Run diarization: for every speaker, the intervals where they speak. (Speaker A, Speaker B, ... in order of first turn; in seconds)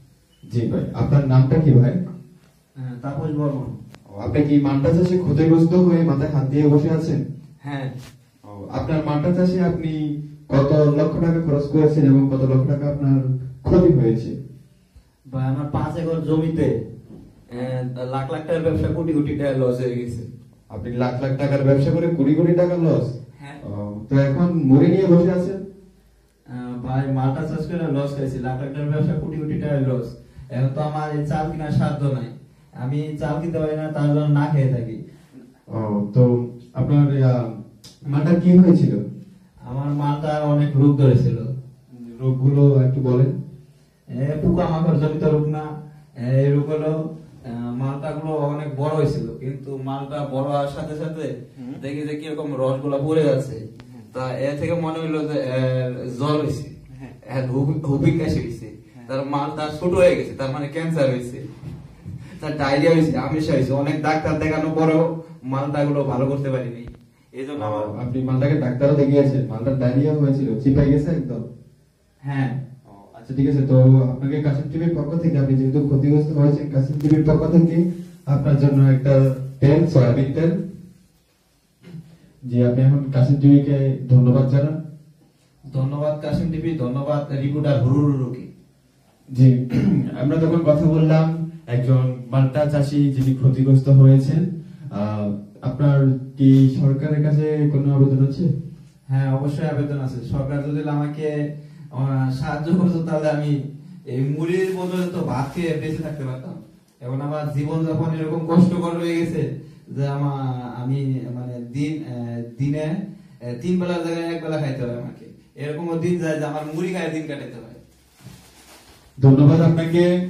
Speaker A: 0.5-2.0, 4.1-7.2, 8.5-10.0, 10.5-14.3, 20.7-23.0, 23.6-25.6, 35.7-37.5, 38.1-39.0, 42.0-43.3, 67.6-71.4, 72.9-80.6, 82.5-84.8, 89.3-98.5, 119.2-120.1
Speaker B: 2.8-3.8, 7.6-7.9, 15.3-16.7, 17.5-20.3, 26.5-35.0, 39.7-41.5, 44.1-45.7, 46.2-61.5, 62.3-67.9, 72.2-72.5, 85.7-88.5, 99.1-101.3, 101.9-103.6, 104.1-112.9, 113.5-117.8